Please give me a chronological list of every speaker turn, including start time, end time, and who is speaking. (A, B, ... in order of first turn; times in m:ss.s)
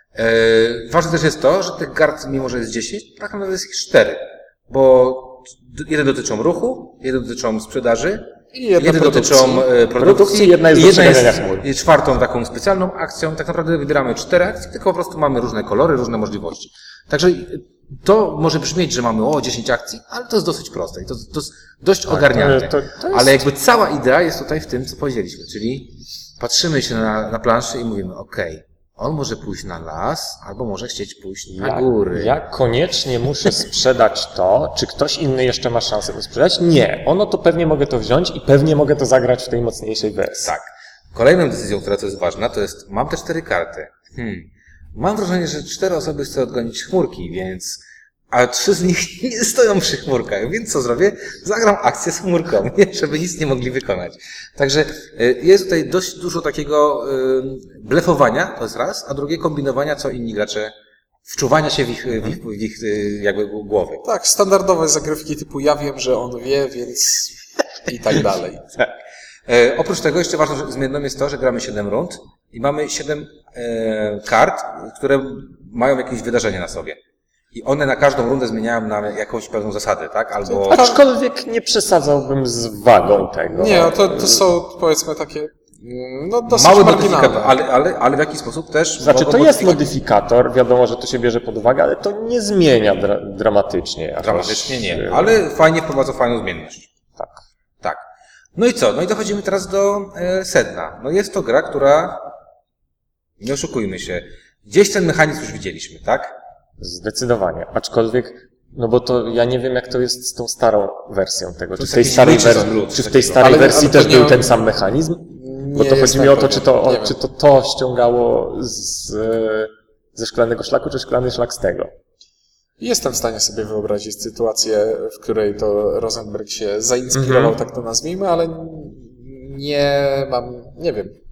0:00.1-0:08.2 A
0:08.5-0:09.7 B
0:08.8-0:32.3 A
0:09.9-0:11.6 C
0:22.1-0:23.4 C
0:31.5-0:40.5 C
0:40.4-1:00.7 A
1:01.3-1:04.0 A
1:04.0-1:08.6 B
1:09.5-1:17.0 A
1:17.5-1:20.8 A
1:20.5-1:21.0 B
1:20.7-1:24.4 C
1:23.5-1:27.6 B
1:26.5-1:29.8 A
1:29.0-1:35.4 C
1:34.2-1:36.9 A
1:38.6-1:42.3 A
1:43.4-1:46.3 A
1:46.8-2:01.9 C
1:51.8-1:53.8 A
1:53.4-1:54.5 B
1:55.3-1:57.2 B
2:02.8-2:11.2 B
2:07.1-2:07.5 C